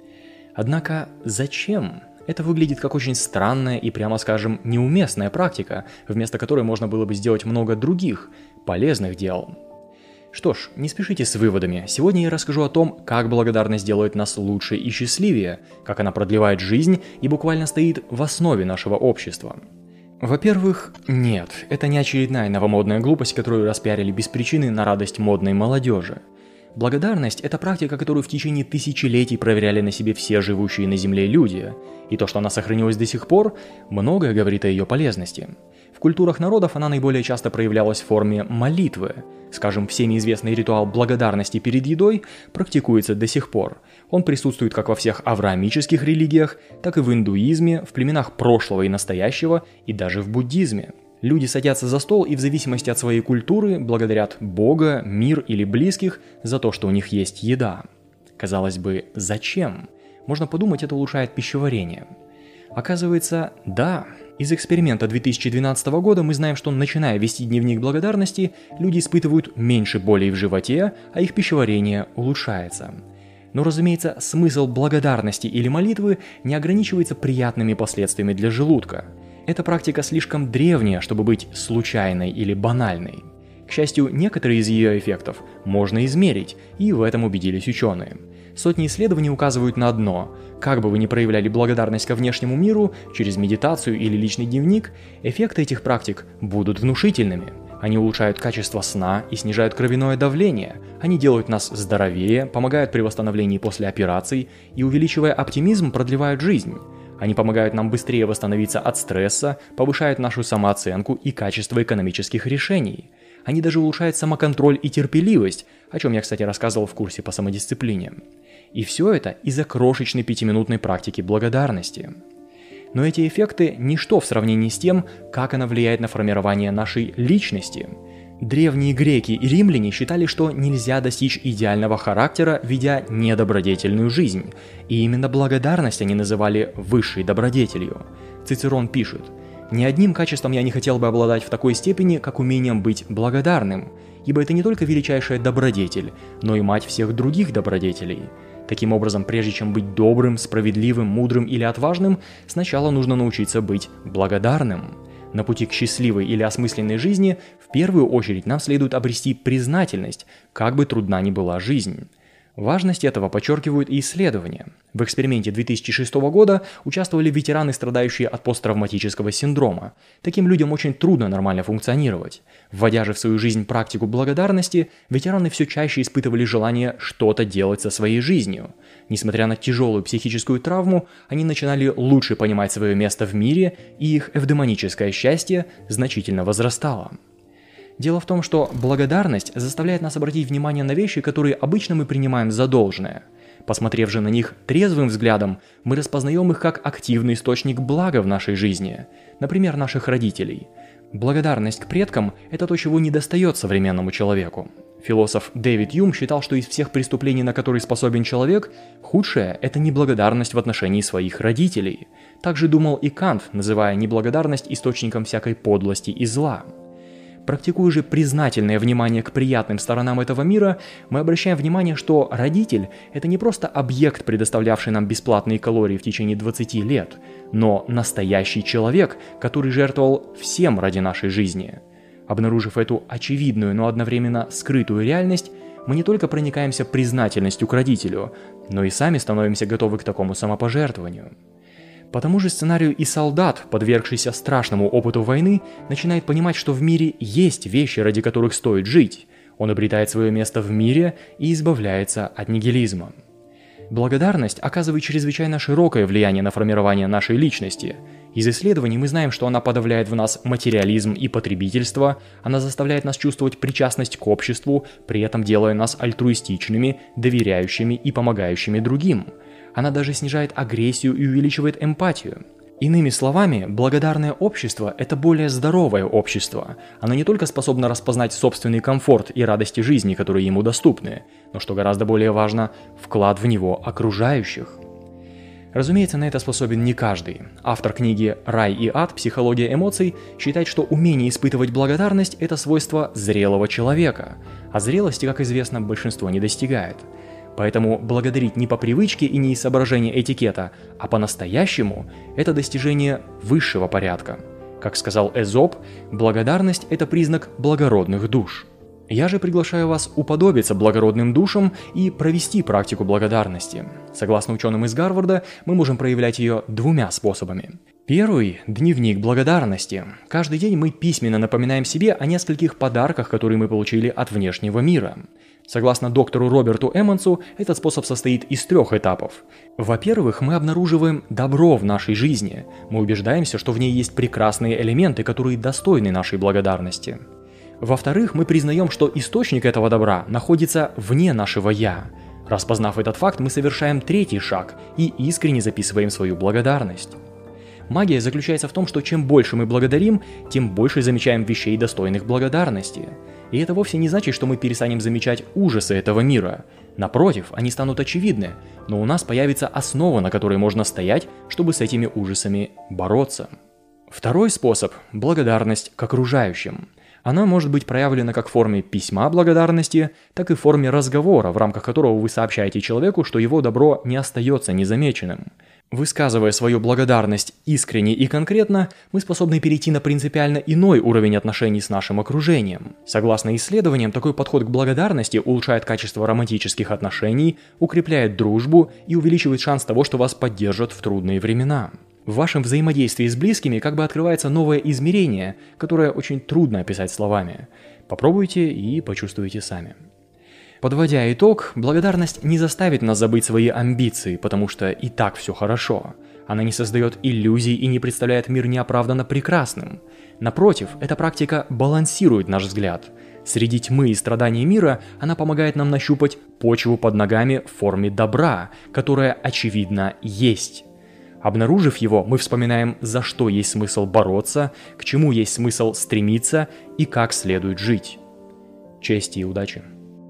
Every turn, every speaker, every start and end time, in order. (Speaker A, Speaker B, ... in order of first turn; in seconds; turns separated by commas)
Speaker A: 0.6-9.6, Speaker A: 10.3-19.6, Speaker A: 20.2-26.2, Speaker A: 26.8-57.9, Speaker A: 58.4-62.1, Speaker A: 62.7-73.0, Speaker A: 73.5-118.2, Speaker A: 118.7-122.2, Speaker A: 122.9-187.2, Speaker A: 188.0-216.7, Speaker A: 217.4-241.3, Speaker A: 242.1-253.2, Speaker A: 253.9-284.8, Speaker A: 285.7-337.2, Speaker A: 337.8-347.2, Speaker A: 347.9-363.5, Speaker A: 364.1-400.0, Speaker A: 400.8-420.9, Speaker A: 421.4-428.2, Speaker A: 429.0-429.9